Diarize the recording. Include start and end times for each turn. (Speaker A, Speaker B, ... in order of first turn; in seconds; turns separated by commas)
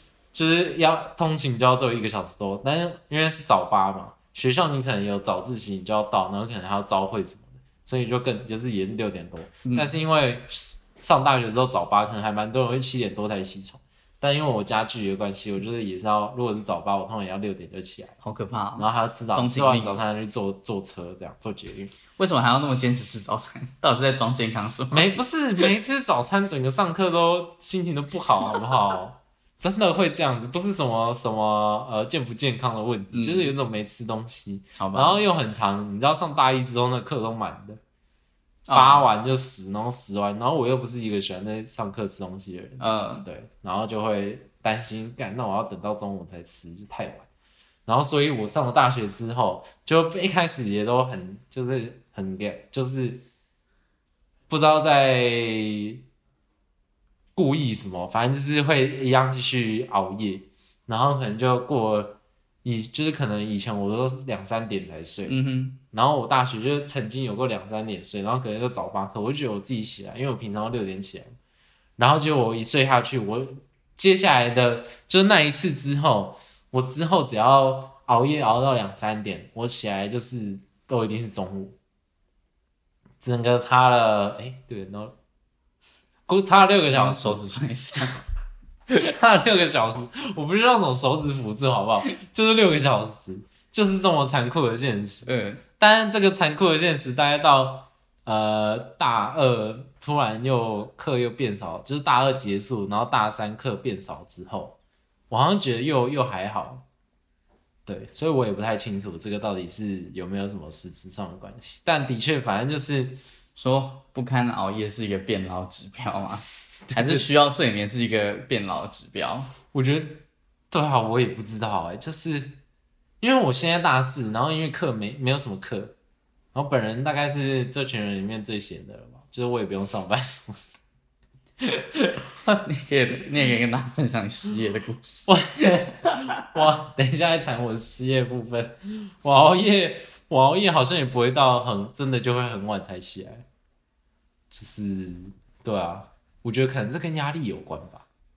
Speaker A: 0.3-18.2, Speaker B: 9.7-9.9, Speaker B: 18.2-20.0, Speaker A: 18.8-21.9, Speaker B: 22.1-25.2, Speaker A: 24.9-37.8, Speaker B: 33.1-33.5, Speaker B: 34.8-35.2, Speaker B: 38.7-39.0, Speaker A: 38.7-47.3, Speaker B: 42.8-43.3, Speaker A: 47.9-53.2, Speaker A: 54.5-56.0, Speaker A: 57.4-65.3, Speaker B: 65.2-65.8, Speaker A: 65.9-71.3, Speaker A: 72.0-81.8, Speaker A: 83.2-85.1, Speaker A: 86.3-87.4, Speaker B: 86.9-88.2, Speaker A: 88.9-95.3, Speaker B: 95.2-95.6, Speaker A: 95.8-104.8, Speaker A: 105.3-106.8, Speaker A: 107.8-113.2, Speaker B: 113.5-119.5, Speaker A: 116.9-117.3, Speaker A: 119.7-122.6, Speaker A: 123.2-126.0, Speaker A: 126.5-130.6, Speaker A: 131.9-132.6, Speaker B: 132.6-135.4, Speaker A: 135.3-143.4, Speaker A: 144.5-148.0